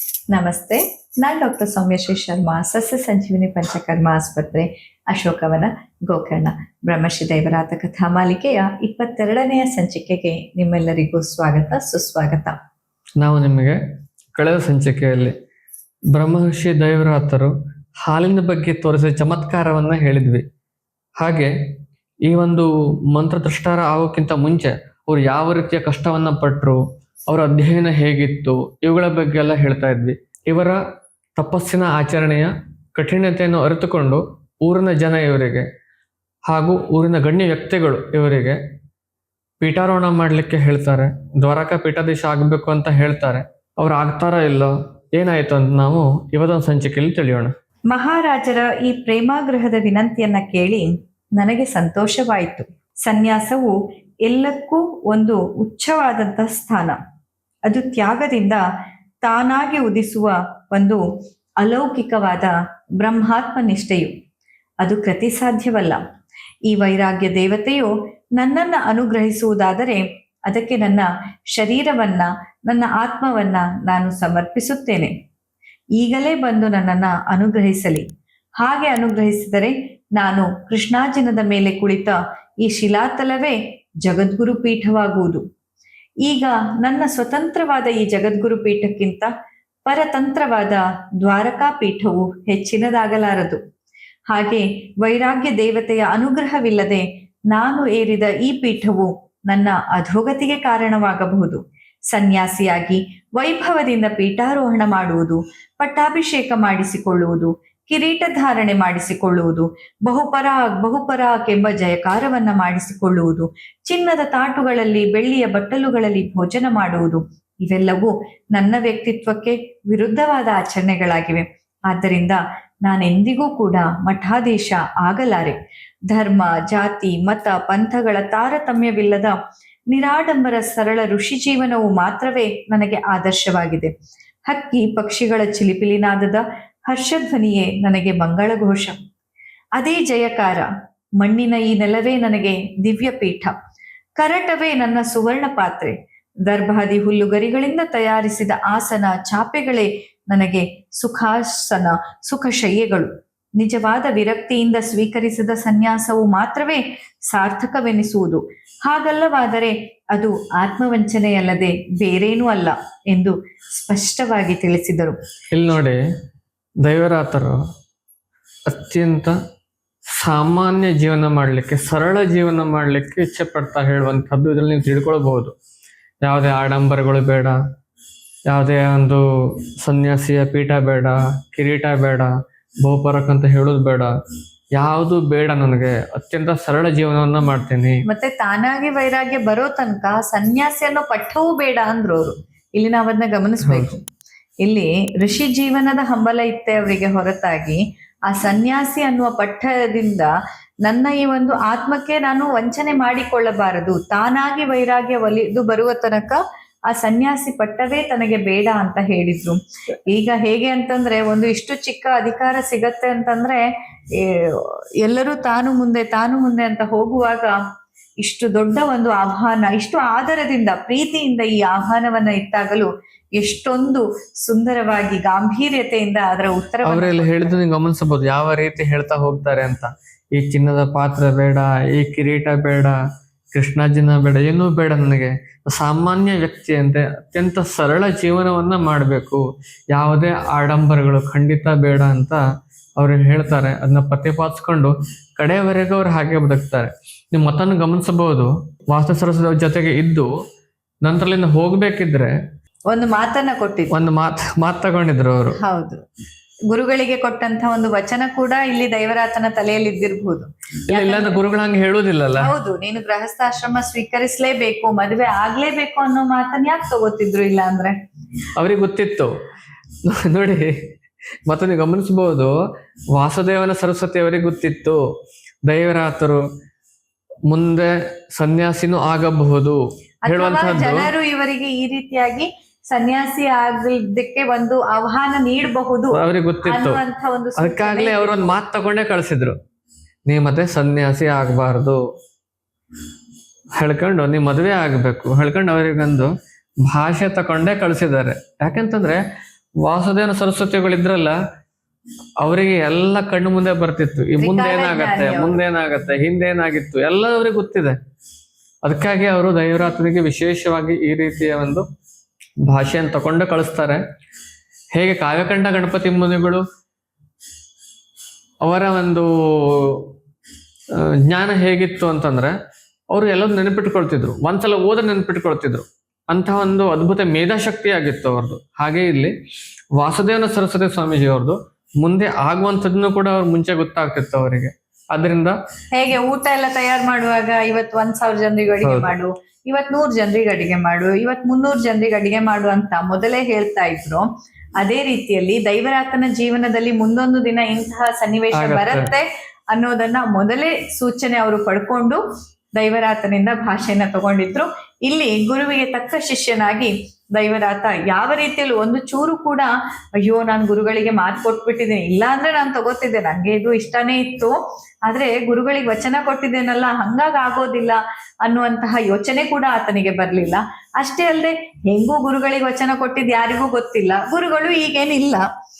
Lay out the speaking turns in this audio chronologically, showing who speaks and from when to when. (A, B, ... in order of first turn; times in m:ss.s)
0:00.3-0:12.5 A
0:13.2-0:13.8 B
0:14.3-0:15.3 B
0:16.1-0:17.5 B
0:18.0-0:20.4 B
0:21.2-0:21.5 B
0:22.2-0:30.8 B
0:31.4-0:35.6 B
0:36.5-0:38.6 B
0:39.6-0:47.5 B
0:47.9-0:53.7 A
0:54.2-0:57.0 A
0:57.7-0:58.6 A
0:59.2-1:01.0 A
1:01.6-1:04.1 A
1:04.8-1:06.0 A
1:06.7-1:15.1 A
1:16.0-1:18.0 A
1:18.6-1:25.4 A
1:26.2-1:29.3 A
1:29.8-1:33.6 A
1:34.3-1:41.6 A
1:42.1-2:05.6 A
2:06.1-2:09.4 A
2:09.9-2:13.9 A
2:14.5-2:19.0 A
2:19.8-2:20.7 A
2:21.2-2:23.6 A
2:24.2-2:25.9 A
2:26.4-2:45.2 A
2:45.5-2:46.0 B
2:46.8-2:47.6 B
2:48.7-2:49.4 B
2:50.2-2:55.5 B
2:56.2-2:57.6 B
2:58.5-3:02.3 B
3:02.8-3:04.1 B
3:04.8-3:08.0 B
3:08.0-3:14.0 A
3:13.6-3:13.9 B
3:14.6-3:20.3 A
3:20.8-3:33.6 A
3:34.1-3:37.5 A
3:38.2-3:47.5 A
3:46.8-3:53.0 B
3:53.5-4:02.4 B
4:03.0-4:10.3 B
4:11.0-4:12.3 B
4:12.9-4:13.9 A
4:13.9-4:15.6 B
4:15.6-4:16.0 A
4:16.7-4:21.4 A
4:20.9-4:22.5 B
4:22.4-4:27.9 A
4:28.6-4:29.3 B
4:30.0-4:30.8 B
4:31.5-4:32.5 B
4:33.1-4:35.0 B
4:35.7-4:36.4 B
4:37.5-4:41.0 B
4:40.2-4:46.1 A
4:46.1-4:47.0 B
4:46.6-4:48.5 A
4:47.6-4:49.5 B
4:50.3-4:52.0 B
4:53.8-4:56.3 B
4:56.9-4:59.2 B
4:59.8-5:01.4 B
5:02.4-5:08.0 B
5:04.4-5:05.6 A
5:08.8-5:11.8 B
5:12.7-5:14.0 B
5:14.9-5:16.6 B
5:18.6-5:20.1 B
5:21.0-5:22.5 B
5:23.1-5:29.3 B
5:30.0-5:35.6 B
5:35.9-5:44.2 A
5:38.8-5:39.1 B
5:44.8-5:52.2 A
5:48.5-5:49.1 B
5:52.8-6:15.4 A